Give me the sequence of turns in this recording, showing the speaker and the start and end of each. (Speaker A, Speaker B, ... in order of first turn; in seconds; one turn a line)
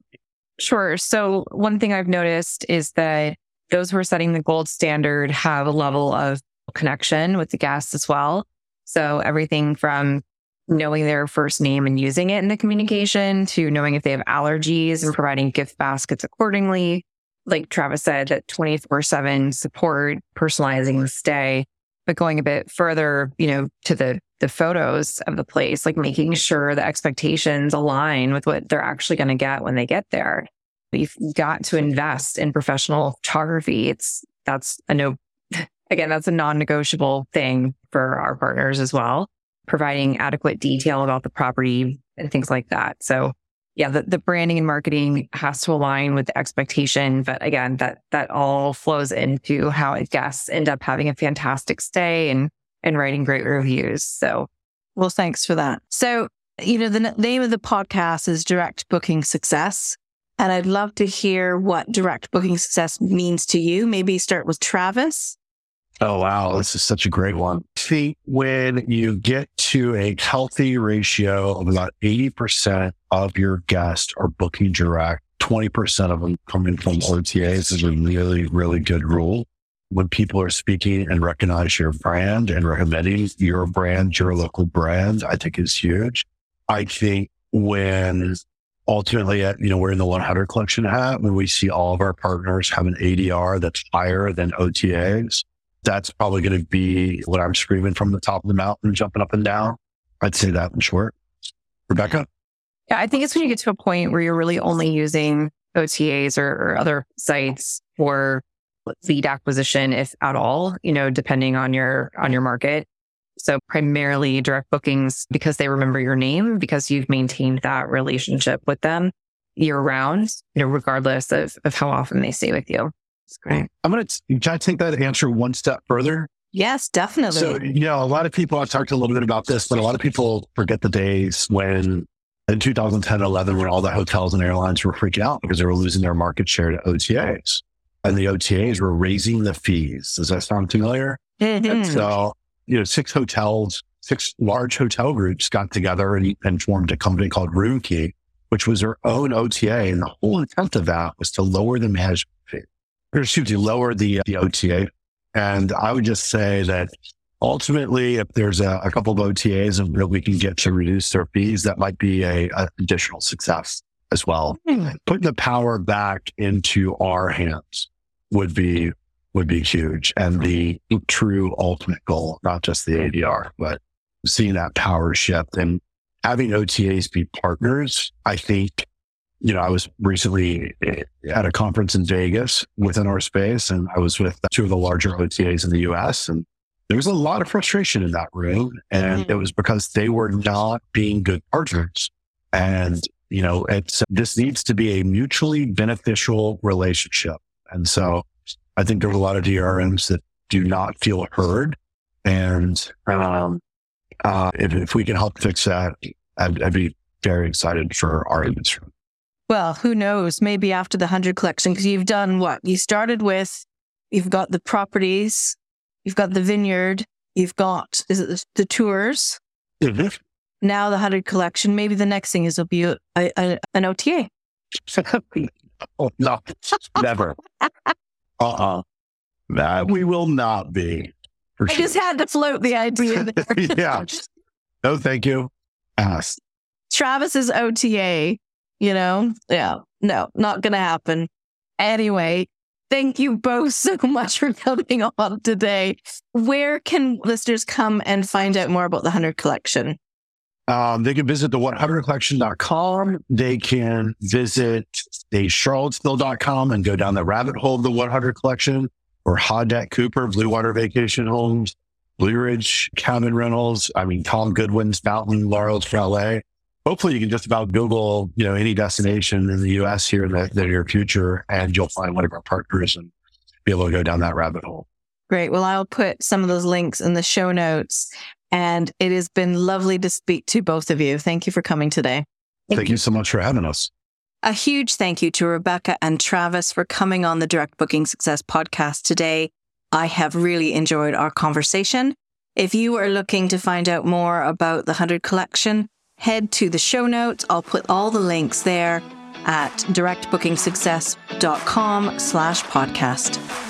Speaker A: 0.6-54.5
Speaker B: 55.0-65.3
Speaker C: 66.0-101.2
Speaker C: 101.9-102.3
Speaker A: 102.9-112.8
Speaker A: 113.4-122.9
Speaker B: 123.4-123.7
Speaker C: 123.8-126.3
Speaker B: 126.5-127.6
Speaker C: 127.3-156.9
Speaker B: 141.4-142.1
Speaker C: 157.4-178.8
Speaker C: 179.4-203.6
Speaker C: 204.2-208.9
Speaker B: 209.5-219.4
Speaker C: 219.8-220.2
Speaker B: 220.6-224.3
Speaker C: 224.9-227.4
Speaker C: 228.4-228.8
Speaker C: 229.5-231.9
Speaker B: 231.7-234.0
Speaker C: 233.2-234.2
Speaker C: 234.8-236.4
Speaker B: 236.9-250.0
Speaker C: 250.7-273.1
Speaker C: 273.6-274.9
Speaker B: 275.3-282.2
Speaker C: 282.7-283.9
Speaker B: 284.4-303.4